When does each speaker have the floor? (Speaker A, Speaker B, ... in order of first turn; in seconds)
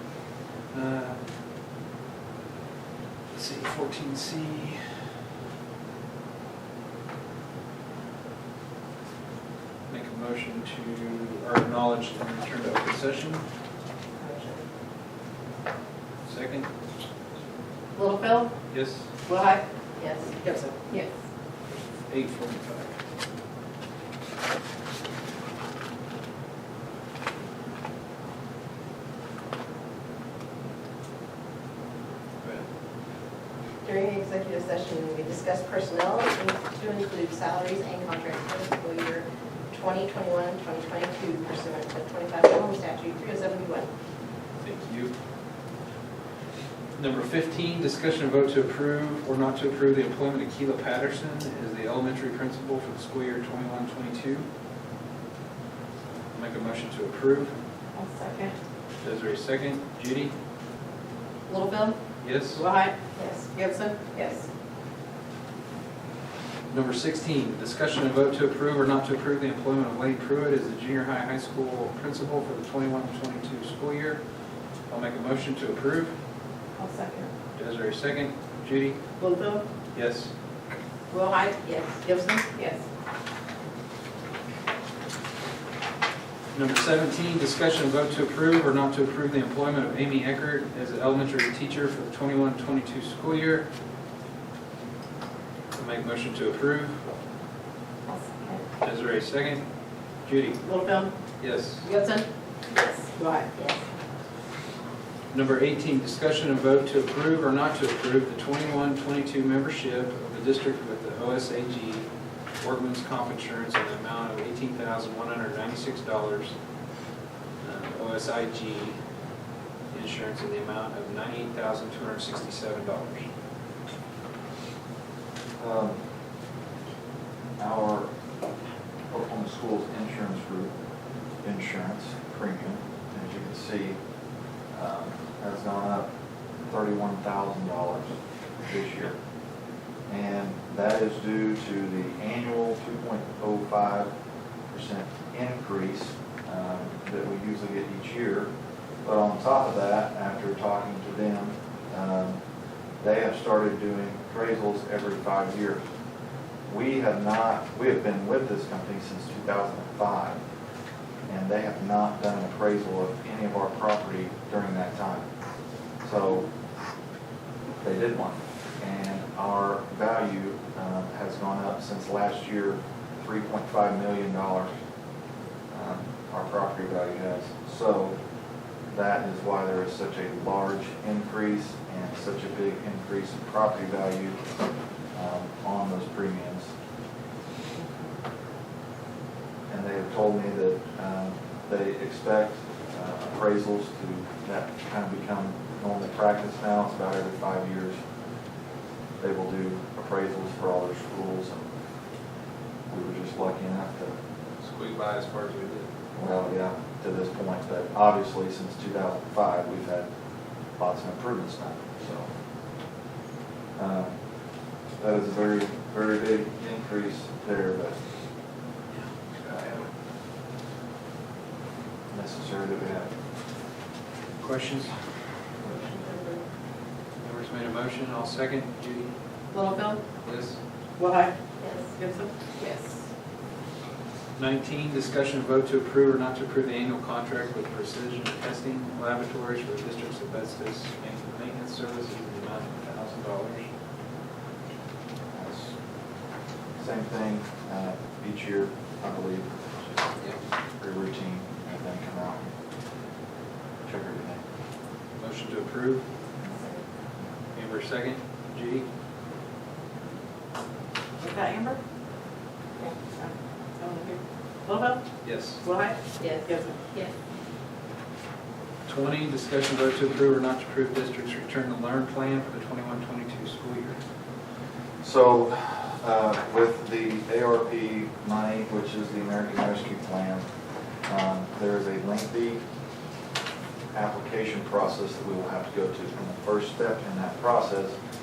Speaker A: 0.7-1.2, 3.3-5.0, 9.9-13.4, 16.2-16.7, 18.7-19.1, 22.1-22.9, 44.6-45.1, 47.0-54.5, 56.3-57.5, 59.0-60.3, 62.2-62.6, 66.7-74.2, 74.9-76.1, 77.5-79.0, 79.9-80.3, 86.5-93.7, 95.7-97.1, 98.8-99.6, 100.2-100.6, 101.4-101.8, 105.3-112.1, 112.6-116.5, 117.6-119.0, 119.9-123.3, 204.6-205.9, 219.0-219.8, 224.4-224.9, 227.2-229.1, 230.2-230.6, 234.3-243.7, 255.2-256.1, 257.5-258.9, 265.2-265.6, 268.9-274.0
Speaker B: 14.2-14.6, 17.9-18.5, 19.2-20.9, 57.9-58.5, 61.5-62.0, 62.5-64.5, 76.8-77.3, 79.2-79.6, 81.1-82.8, 100.6-101.1, 101.8-102.3, 103.2-103.5, 229.5-230.0, 231.0-231.3, 231.9-232.9, 261.2-261.8, 263.0-265.0, 265.6-266.8
Speaker C: 20.0-20.3, 33.8-43.9, 63.1-63.5, 98.1-98.6, 102.7-103.8, 225.6-226.4, 231.6-231.9, 256.5-256.8, 262.8-263.0, 266.2-267.1
Speaker D: 125.6-126.0, 127.6-128.1, 129.1-130.7, 131.4-134.0, 134.7-136.1, 136.6-138.1, 138.7-139.2, 140.1-144.1, 144.7-148.5, 149.0-152.4, 153.0-155.8, 156.7-160.4, 161.3-165.2, 166.0-166.5, 167.8-174.7, 175.7-178.2, 178.9-184.4, 185.1-186.7, 189.7-198.0, 199.2-201.6, 202.9-204.1, 206.1-210.1, 210.7-212.3, 213.8-214.2, 215.0-218.0, 219.4-219.8, 222.1-223.1, 245.3-245.7, 246.8-249.7, 250.8-252.5, 253.8-254.4, 275.0-280.4, 281.1-282.6, 283.9-288.0